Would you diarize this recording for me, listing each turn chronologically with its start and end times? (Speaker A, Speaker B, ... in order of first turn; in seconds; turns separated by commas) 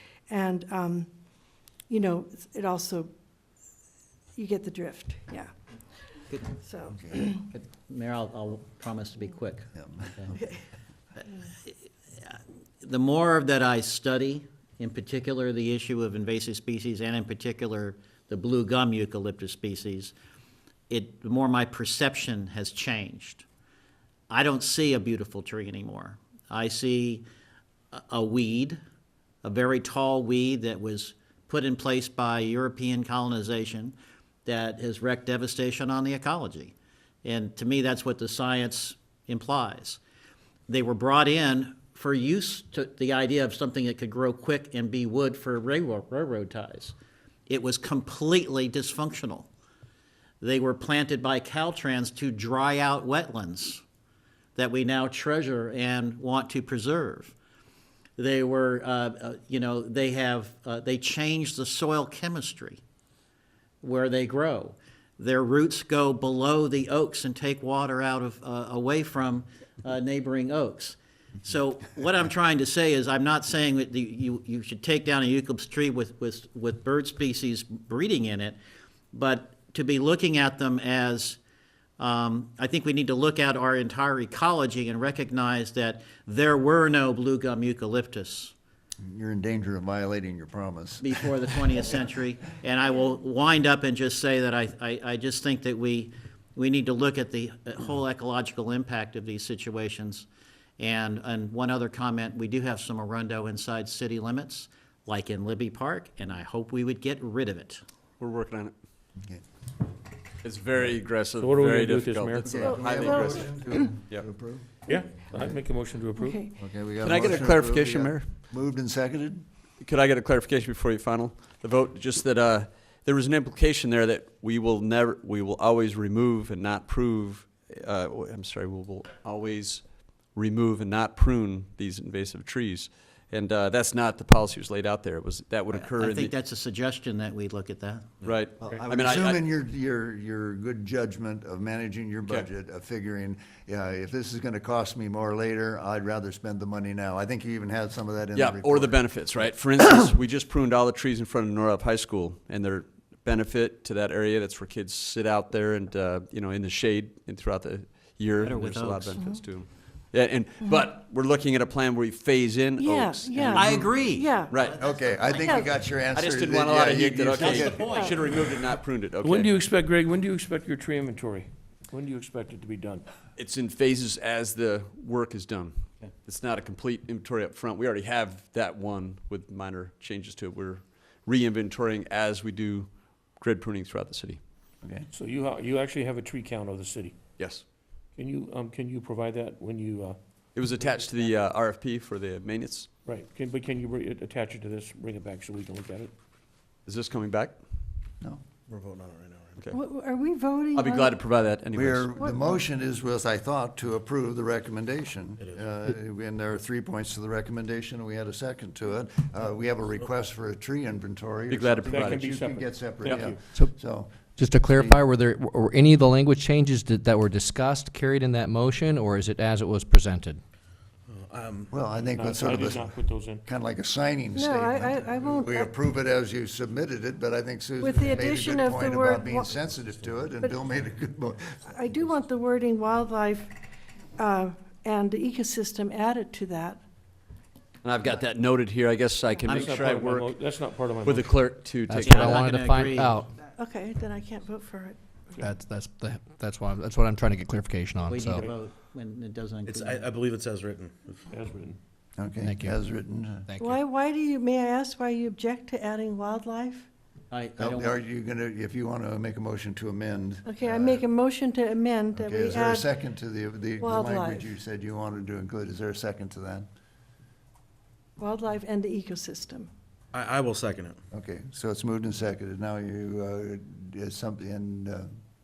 Speaker A: 0.3-1.1, Speaker A: 1.9-3.1, Speaker A: 4.4-5.5, Speaker A: 6.6-7.5, Speaker B: 7.5-10.4, Speaker C: 9.8-10.1, Speaker B: 12.8-20.1, Speaker B: 20.9-23.4, Speaker B: 24.3-27.2, Speaker B: 27.9-28.8, Speaker B: 29.4-36.7, Speaker B: 37.2-40.0, Speaker B: 40.7-47.0, Speaker B: 47.5-49.5, Speaker B: 50.4-53.8, Speaker B: 54.6-57.3, Speaker B: 58.2-62.8, Speaker B: 63.8-78.6, Speaker B: 79.1-81.4, Speaker B: 82.0-88.5, Speaker C: 89.0-91.1, Speaker B: 91.0-100.3, Speaker B: 100.8-107.8, Speaker D: 108.2-108.7, Speaker D: 110.4-113.5, Speaker E: 111.4-112.6, Speaker C: 112.4-114.7, Speaker A: 112.5-113.5, Speaker E: 114.9-116.4, Speaker A: 116.2-116.5, Speaker C: 116.6-119.4, Speaker D: 117.0-118.3, Speaker D: 119.8-129.8, Speaker D: 130.3-136.3, Speaker B: 135.7-138.1, Speaker D: 138.2-139.4, Speaker C: 138.6-149.0, Speaker D: 148.4-163.8, Speaker B: 158.4-159.2, Speaker A: 162.8-164.5, Speaker B: 163.5-165.7, Speaker D: 164.5-164.8, Speaker C: 164.8-167.9, Speaker A: 165.4-165.7, Speaker D: 166.1-169.5, Speaker F: 167.3-168.5, Speaker A: 167.9-168.2, Speaker E: 169.2-173.1, Speaker D: 173.4-184.4, Speaker E: 185.1-187.2, Speaker D: 187.4-187.7, Speaker E: 188.2-191.2, Speaker D: 190.6-192.9, Speaker E: 193.1-196.1, Speaker D: 196.9-197.6, Speaker F: 198.7-199.6, Speaker A: 199.7-201.2, Speaker D: 200.8-202.1, Speaker C: 201.7-215.0, Speaker D: 211.5-212.2, Speaker E: 211.8-213.4, Speaker G: 214.4-220.4, Speaker F: 221.1-221.7, Speaker C: 221.7-232.0, Speaker E: 222.1-223.4, Speaker A: 224.3-225.7, Speaker A: 227.8-229.5, Speaker A: 231.7-233.6, Speaker A: 234.2-236.8, Speaker D: 237.8-240.3, Speaker B: 239.5-239.8, Speaker E: 239.5-241.5, Speaker D: 241.1-242.4, Speaker G: 241.8-243.3, Speaker B: 242.0-243.2, Speaker A: 243.4-245.4, Speaker G: 245.4-248.5, Speaker B: 248.1-250.2, Speaker F: 249.7-251.2, Speaker E: 251.3-251.8, Speaker C: 252.2-253.5, Speaker G: 252.4-252.8, Speaker A: 253.6-256.9, Speaker B: 257.3-258.0, Speaker C: 257.6-261.1, Speaker A: 260.5-262.9, Speaker C: 262.1-266.7, Speaker A: 263.8-264.5, Speaker A: 268.2-269.7, Speaker F: 270.1-271.0, Speaker C: 271.1-275.1